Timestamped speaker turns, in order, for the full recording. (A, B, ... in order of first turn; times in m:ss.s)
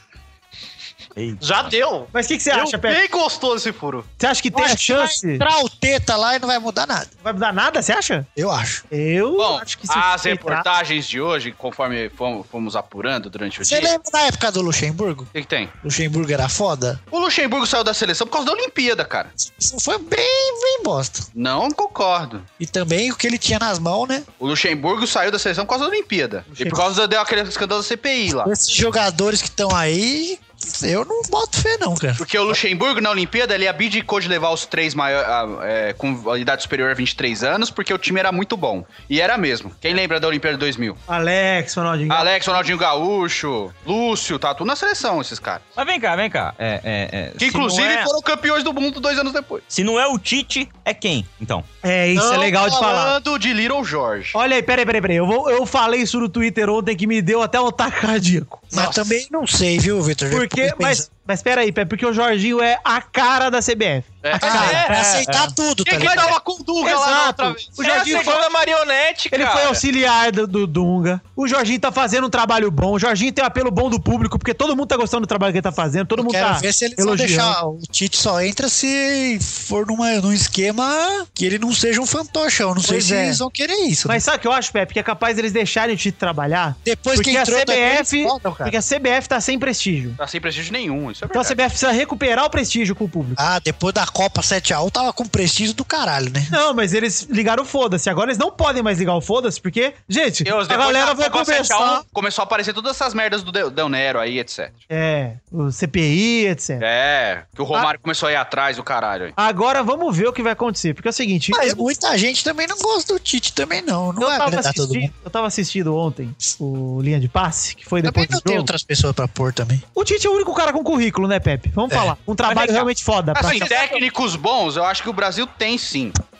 0:01.2-0:01.7 A
0:01.4-0:04.0 B
0:02.1-0:03.0 C
0:04.2-0:05.4 C
0:04.5-0:07.1 D
0:07.2-0:08.3 C
0:08.4-0:08.8 D
0:08.9-0:10.7 C
0:09.4-0:13.9 B
0:13.6-0:15.3 D
0:15.3-0:15.7 B
0:15.8-0:17.0 D
0:17.1-0:19.3 B
0:19.4-0:21.3 D
0:21.3-0:22.4 B
0:22.6-0:24.2 D
0:24.4-0:28.5 B
0:28.4-0:32.6 D
0:32.2-0:41.0 B
0:41.1-0:42.6 C
0:42.1-0:45.6 B
0:45.8-0:48.1 A
0:47.4-0:49.6 B
0:49.7-0:51.6 A
0:51.8-0:53.2 C
0:52.2-0:54.3 B
0:54.3-0:58.8 C
0:58.7-1:01.0 D
0:58.7-0:59.0 B
1:00.3-1:05.0 C
1:04.2-1:05.3 E
1:04.4-1:05.2 B
1:04.4-1:06.4 D
1:05.8-1:08.4 B
1:05.9-1:06.3 E
1:06.8-1:08.5 C
1:07.8-1:09.8 E
1:09.3-1:17.6 C
1:16.2-1:24.2 D
1:22.8-1:23.4 C
1:24.0-1:30.2 C
1:26.8-1:28.8 D
1:30.2-1:31.6 B
1:31.3-1:33.4 C
1:33.4-1:36.5 D
1:36.5-1:42.0 C
1:40.4-1:44.7 B
1:44.9-1:46.8 C
1:46.8-1:49.3 B
1:49.4-1:51.8 C
1:51.5-1:55.1 D
1:54.2-1:58.7 C
1:58.0-1:59.8 D
1:59.9-2:03.7 C
2:02.5-2:02.9 E
2:03.3-2:06.2 B
2:03.4-2:04.0 E